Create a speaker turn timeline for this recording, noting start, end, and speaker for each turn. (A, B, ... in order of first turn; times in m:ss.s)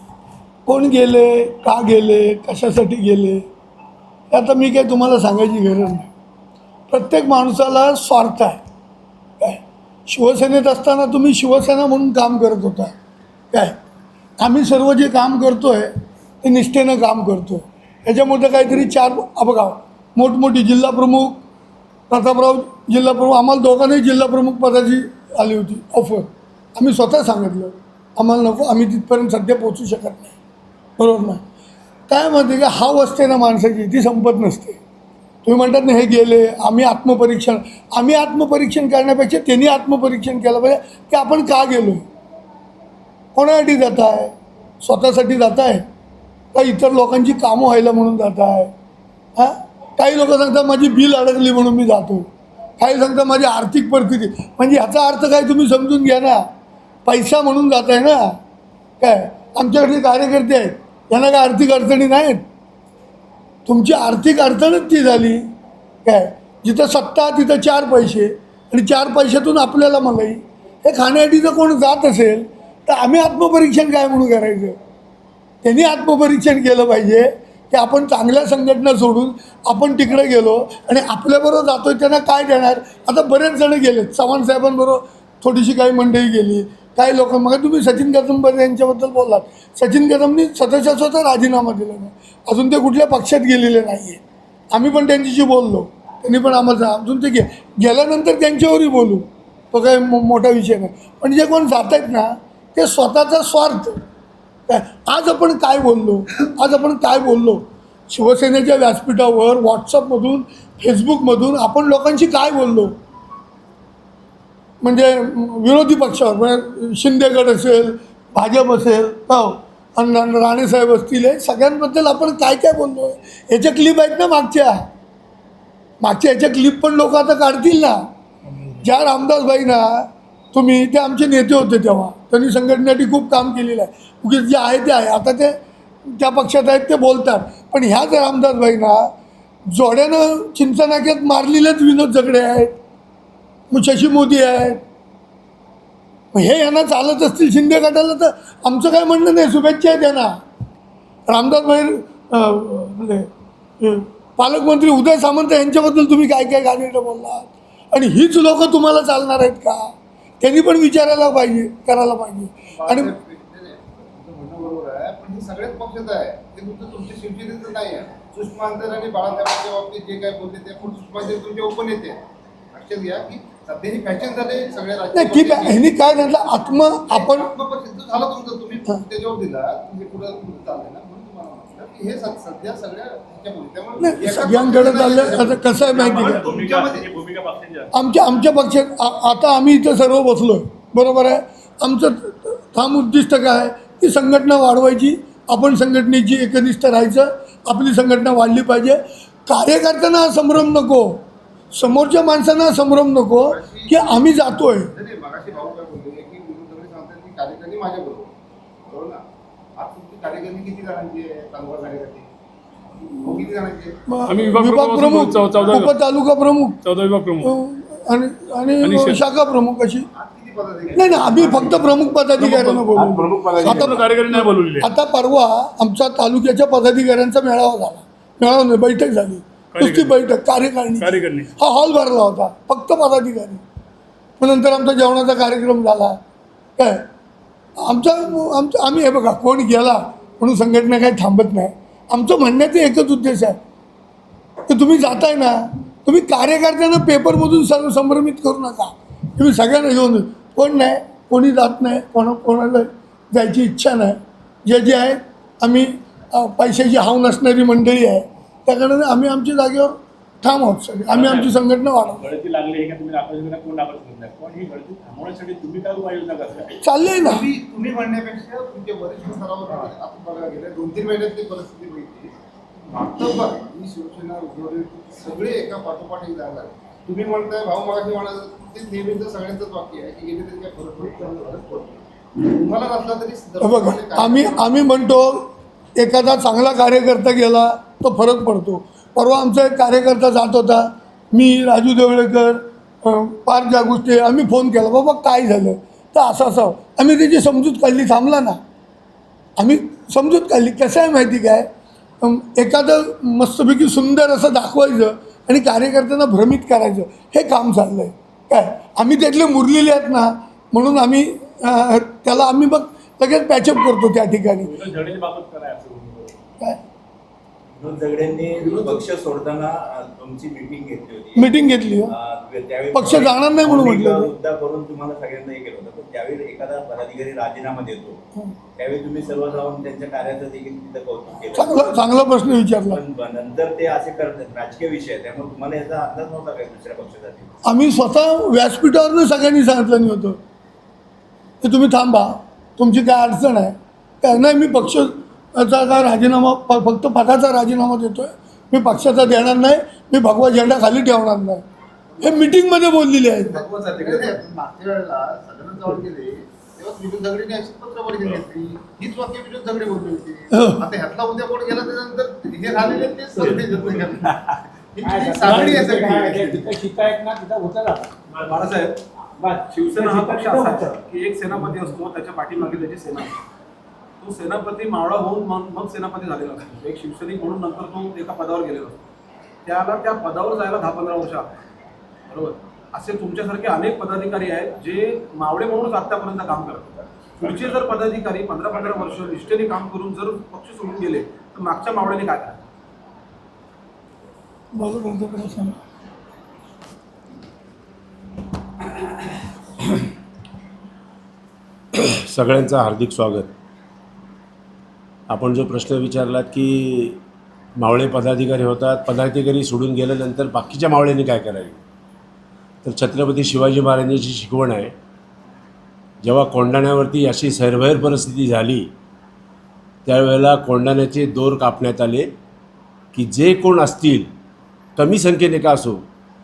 0:00.6-0:03.4 A
0:04.3-0:06.1 A
0:06.9-0:08.6 A
0:09.4-0:12.9 A
0:14.4-0:15.9 A
0:16.4-0:21.4 A
0:22.1-0:30.3 A
0:31.0-0:31.4 A
0:32.1-0:34.8 A
0:35.4-0:42.0 A
0:43.3-0:45.8 A
0:46.5-0:48.7 A
0:49.4-0:56.4 A
0:57.0-0:58.4 A
0:59.0-1:02.4 A
1:03.6-1:05.4 A
1:06.0-1:14.8 A
1:15.6-1:34.2 A
1:34.7-1:44.0 A
1:44.7-1:52.9 A
1:54.8-2:04.8 A
2:06.0-2:08.0 A
2:08.8-2:19.1 A
2:19.7-2:22.7 A
2:23.7-2:24.8 A
2:26.3-2:30.3 A
2:31.3-2:33.3 A
2:33.8-2:43.1 A
2:42.8-2:52.2 B
2:52.7-2:56.0 B
2:55.1-2:57.5 A
2:56.9-3:07.1 B
3:04.0-3:06.5 A
3:05.9-3:07.9 C
3:07.9-3:21.2 A
3:21.7-3:24.9 A
3:23.4-3:28.3 B
3:28.8-3:29.2 B
3:29.8-3:32.3 B
3:33.2-3:34.0 B
3:34.1-3:36.8 A
3:34.3-3:36.0 D
3:36.8-3:37.5 D
3:37.4-3:40.1 A
3:38.8-3:39.2 D
3:40.1-3:42.1 B
3:40.9-3:53.6 A
3:42.4-3:44.9 D
3:42.5-3:44.0 E
3:49.7-3:50.3 D
3:51.0-3:51.5 D
3:54.4-3:56.2 A
3:56.8-3:57.0 A
3:57.8-4:03.6 A
4:04.7-4:22.2 A
4:21.1-4:21.6 C
4:22.1-4:26.8 C
4:26.8-4:27.4 A
4:27.1-4:32.3 B
4:32.9-4:44.8 B
4:43.6-4:45.4 A
4:46.0-4:58.6 A
4:59.6-5:01.7 A
5:02.2-5:14.8 A
5:14.6-5:16.4 C
5:17.8-5:28.2 F
5:18.6-5:19.0 G
5:21.3-5:22.1 A
5:22.9-5:24.3 A
5:28.8-5:37.5 F
5:31.5-5:33.0 A
5:37.6-5:40.4 A
5:41.6-5:51.6 A
5:52.1-5:52.5 B
5:52.2-5:53.6 A
5:53.5-5:54.4 G
5:53.5-6:06.8 B
6:00.5-6:00.8 A
6:05.0-6:08.5 C
6:08.4-6:09.0 G
6:09.4-6:11.0 C
6:09.6-6:13.4 G
6:14.2-6:19.0 G
6:19.6-6:21.5 G
6:22.3-6:32.6 G
6:34.7-6:35.7 A
6:41.9-6:43.5 E
6:45.3-6:47.2 E
6:47.8-6:51.8 E
6:52.8-6:54.9 E
6:56.2-6:58.9 E
7:00.0-7:02.3 E
7:03.1-7:04.3 E
7:05.0-7:06.0 E